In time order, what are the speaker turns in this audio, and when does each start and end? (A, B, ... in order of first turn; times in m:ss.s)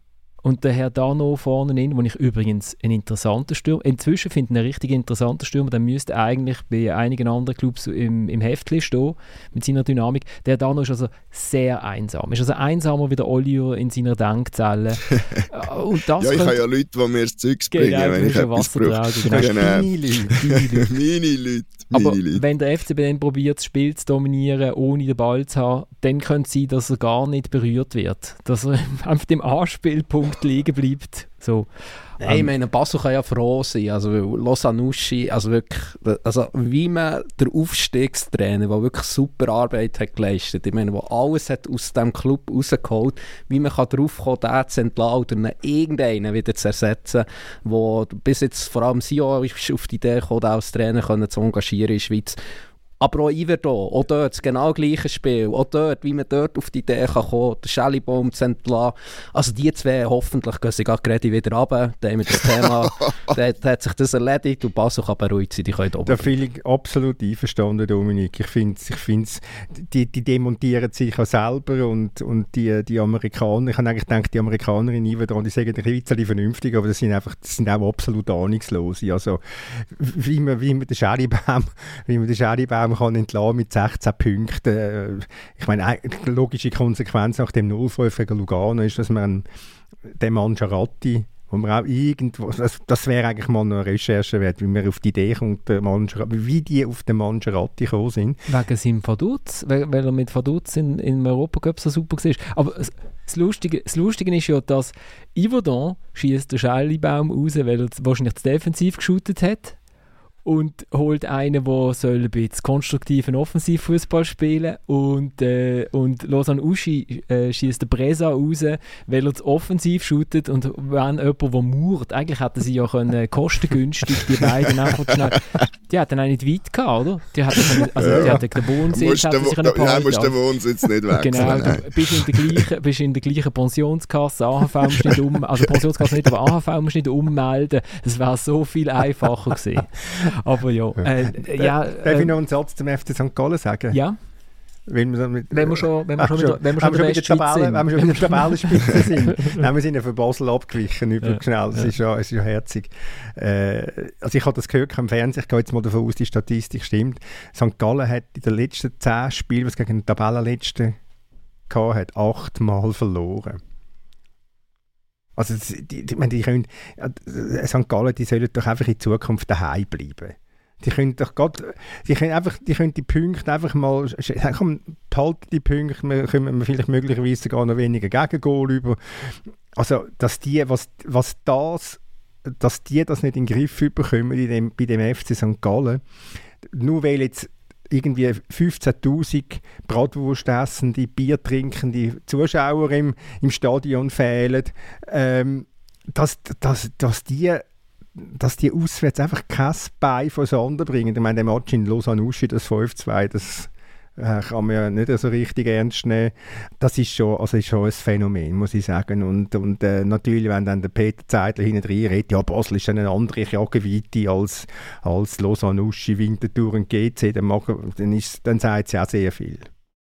0:00.4-0:16.6 A
0:16.2-0:22.4 B
0:17.7-0:20.9 A
0:19.2-0:20.4 C
0:21.9-0:31.7 A
0:32.2-0:52.4 D
0:53.0-1:06.3 D
1:06.0-1:29.4 C
1:30.1-1:38.4 C
1:38.5-1:49.8 A
1:50.4-2:10.4 A
2:08.0-2:12.6 B
2:11.1-2:22.3 A
2:21.4-2:24.0 C
2:23.9-2:24.2 A
2:24.9-2:41.0 C
2:25.5-2:29.6 A
2:31.2-2:31.9 A
2:41.7-2:43.6 C
2:45.4-3:02.0 C
3:02.6-3:06.0 C
3:06.7-3:17.6 C
3:18.2-3:39.7 C